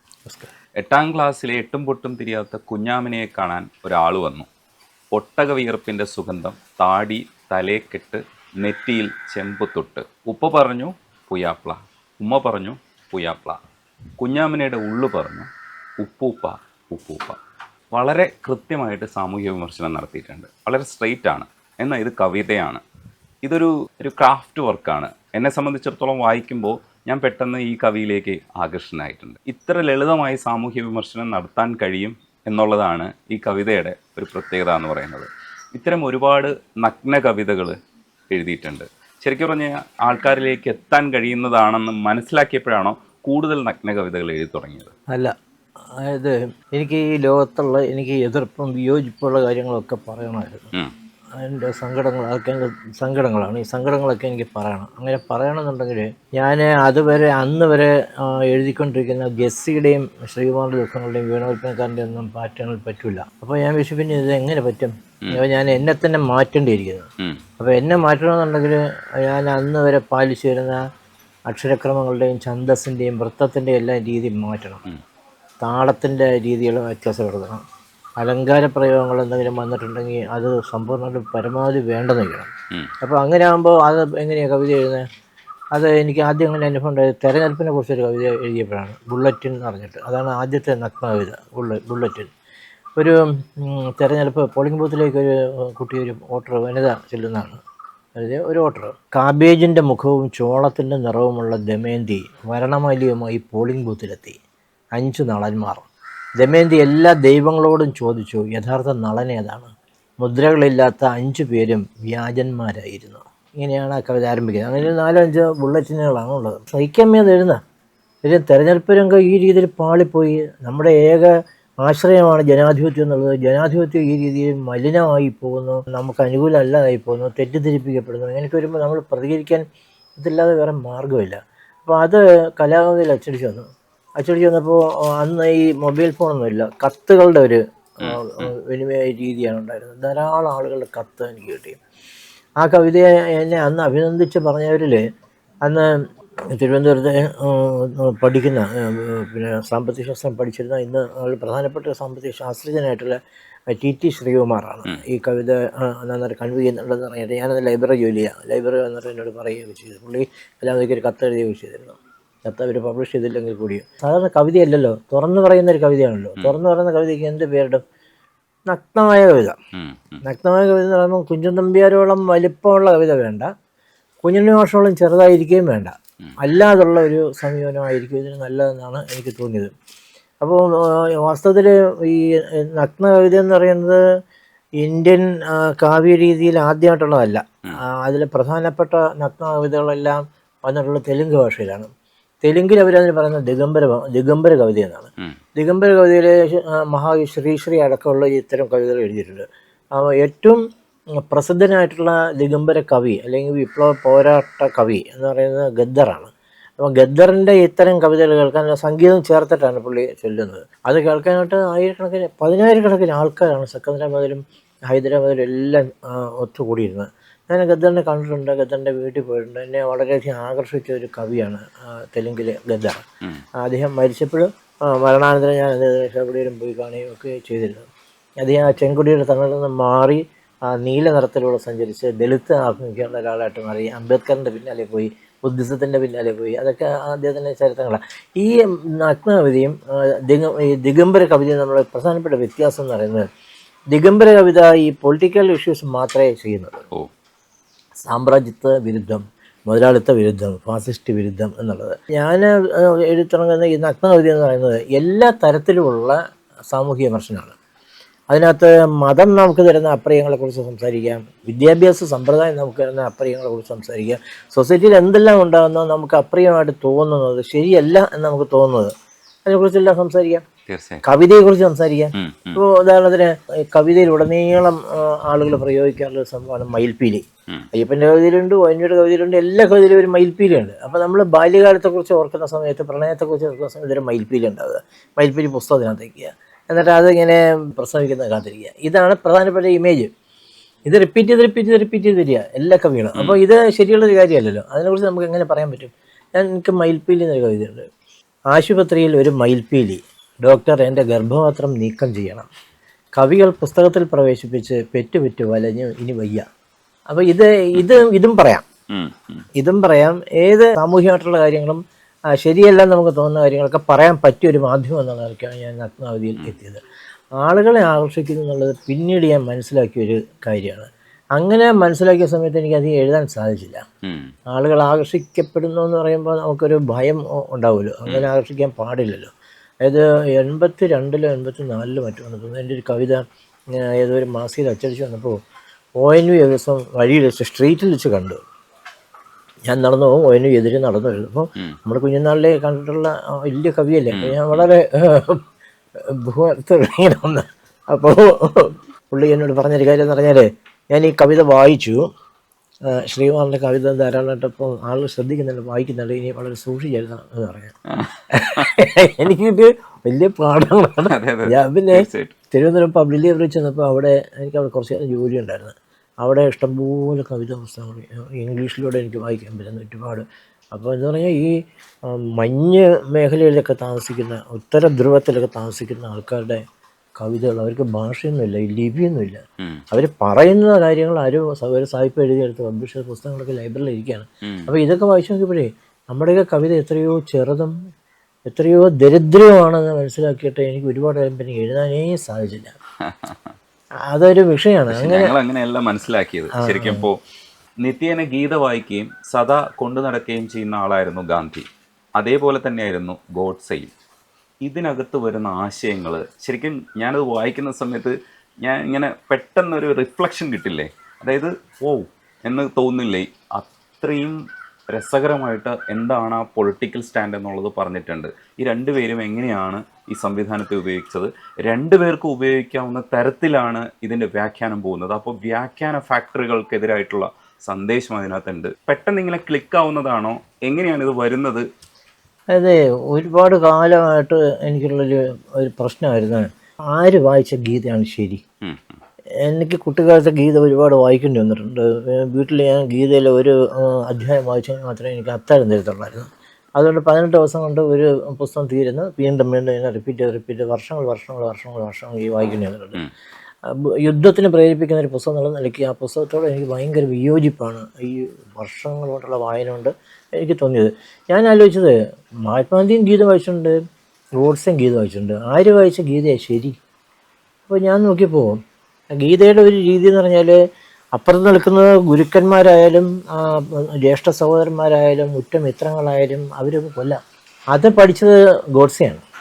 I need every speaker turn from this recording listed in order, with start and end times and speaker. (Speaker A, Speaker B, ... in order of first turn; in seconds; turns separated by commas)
Speaker A: 0.8-4.5, Speaker A: 5.1-13.6, Speaker A: 14.2-15.5, Speaker A: 16.0-17.4, Speaker A: 17.9-22.8, Speaker A: 23.4-37.8, Speaker A: 38.3-44.9, Speaker B: 46.0-50.7, Speaker B: 51.4-67.1, Speaker B: 67.6-70.8, Speaker B: 71.5-74.8, Speaker B: 75.6-77.6, Speaker B: 78.2-82.5, Speaker B: 83.0-85.0, Speaker B: 85.7-92.3, Speaker B: 93.0-97.6, Speaker B: 98.2-104.4, Speaker B: 105.0-105.9, Speaker B: 106.4-109.7, Speaker B: 110.2-117.6, Speaker B: 118.2-121.3, Speaker B: 121.8-129.6, Speaker B: 130.2-133.7, Speaker B: 134.2-141.8, Speaker A: 138.0-138.5, Speaker B: 142.6-145.0, Speaker B: 146.5-153.2, Speaker B: 153.7-167.8, Speaker B: 168.7-169.6, Speaker A: 169.7-170.2, Speaker B: 170.2-173.5, Speaker B: 174.2-179.7, Speaker B: 180.4-184.0, Speaker B: 184.8-191.9, Speaker B: 192.4-199.4, Speaker B: 200.0-200.6, Speaker B: 201.2-223.0, Speaker B: 223.6-227.8, Speaker B: 228.4-243.2, Speaker B: 243.9-246.8, Speaker B: 248.0-256.2, Speaker B: 256.7-257.6, Speaker B: 258.3-268.9, Speaker B: 269.4-270.4, Speaker A: 270.7-271.0, Speaker B: 271.0-290.1, Speaker A: 272.1-272.6, Speaker B: 290.9-297.9, Speaker B: 298.5-302.5, Speaker B: 303.2-306.4, Speaker B: 307.1-308.6, Speaker A: 308.9-309.4, Speaker B: 309.6-311.8, Speaker B: 312.3-316.8, Speaker B: 317.4-323.8, Speaker A: 324.0-324.3, Speaker B: 324.5-329.3, Speaker B: 329.8-333.2, Speaker B: 333.7-335.4, Speaker B: 336.0-338.4, Speaker B: 339.7-345.4, Speaker A: 344.1-344.7, Speaker B: 346.1-352.0, Speaker B: 352.9-357.7, Speaker A: 357.9-358.7, Speaker B: 358.3-371.5, Speaker A: 361.1-362.3, Speaker B: 372.1-376.6, Speaker B: 377.2-387.7, Speaker A: 384.4-384.7, Speaker B: 388.5-392.7, Speaker A: 393.0-393.5, Speaker B: 394.1-395.3, Speaker A: 394.9-397.1, Speaker B: 396.6-397.1, Speaker A: 397.8-401.7, Speaker A: 402.2-403.9, Speaker A: 404.6-414.4, Speaker A: 414.9-431.6, Speaker B: 432.5-438.4, Speaker A: 438.6-439.0, Speaker B: 439.4-453.0, Speaker B: 453.7-461.9, Speaker B: 462.5-463.8, Speaker B: 464.4-466.8, Speaker B: 467.7-468.6, Speaker B: 469.1-470.6, Speaker B: 471.1-477.2, Speaker B: 477.7-479.2